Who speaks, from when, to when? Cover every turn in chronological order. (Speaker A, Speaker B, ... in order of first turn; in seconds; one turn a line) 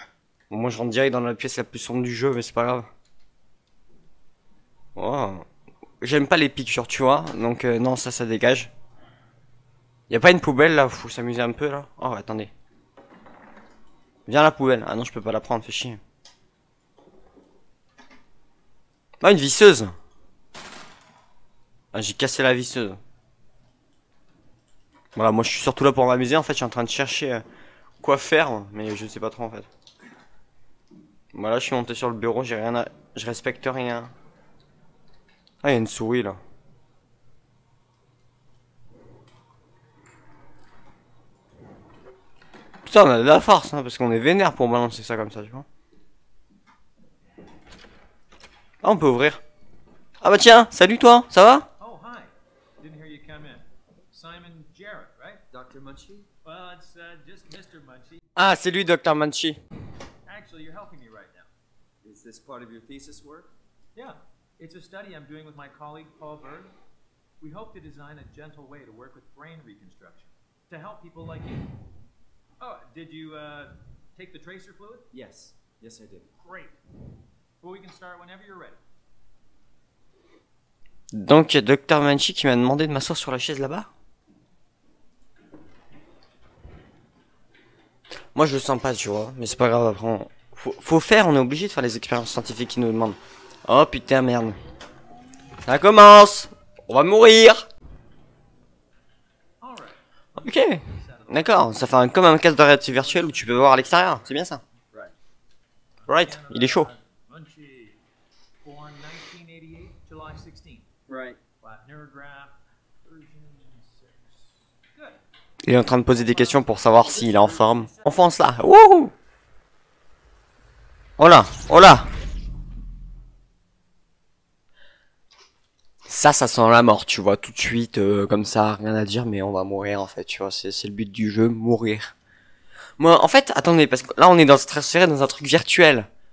Speaker A: 0.5-2.9
Speaker A: 5.0-5.4
Speaker A: 6.0-8.7
Speaker A: 10.1-12.5
Speaker A: 14.3-16.0
Speaker A: 19.2-19.9
Speaker A: 21.9-23.0
Speaker A: 25.1-27.4
Speaker A: 28.0-29.7
Speaker A: 31.3-34.1
Speaker A: 35.6-36.4
Speaker A: 42.9-45.6
Speaker A: 48.8-49.4
Speaker A: 50.2-51.7
Speaker B: 51.8-55.4
Speaker C: 55.5-56.3
Speaker B: 56.4-58.2
Speaker A: 58.4-59.6
Speaker B: 60.3-61.5
Speaker C: 62.0-63.5
Speaker B: 64.0-66.7
Speaker B: 67.4-71.6
Speaker B: 72.6-75.1
Speaker C: 75.1-76.3
Speaker B: 76.4-76.8
Speaker B: 77.6-78.8
Speaker A: 81.1-83.9
Speaker A: 88.3-94.5
Speaker A: 95.6-97.6
Speaker B: 99.6-101.8
Speaker A: 100.4-104.6
Speaker B: 102.9-104.0
Speaker B: 106.0-108.0
Speaker A: 106.1-106.9
Speaker B: 108.6-110.9
Speaker C: 111.1-111.4
Speaker B: 111.6-115.2
Speaker A: 115.6-119.1
Speaker B: 116.1-118.0
Speaker A: 121.2-122.1
Speaker A: 126.0-132.1
Speaker A: 133.0-136.1